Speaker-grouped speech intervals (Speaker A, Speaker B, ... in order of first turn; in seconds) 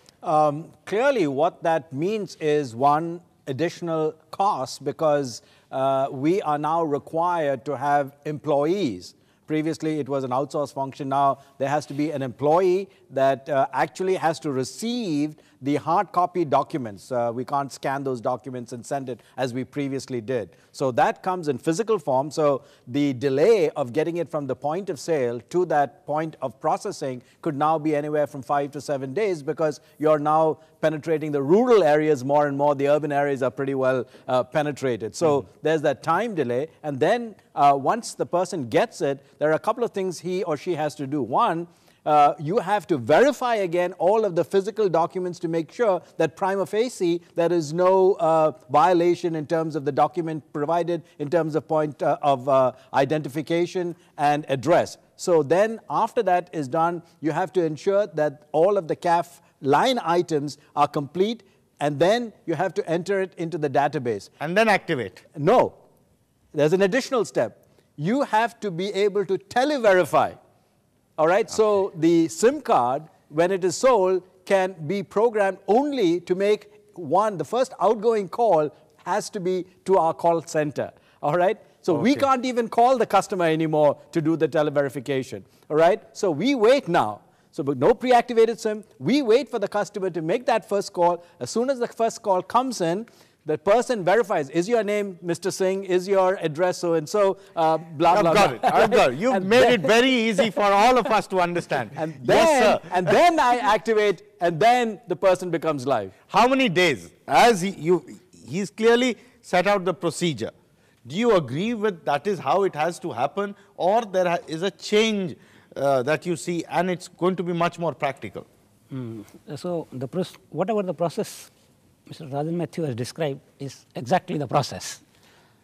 Speaker A: 0.2-64.3, 65.3-65.8, 66.5-70.4, 71.2-100.4, 101.9-106.1
Speaker B: 64.4-65.2, 81.9-82.2, 98.1-103.1, 106.3-110.5, 111.0-118.5
Speaker C: 118.9-121.5, 122.1-125.0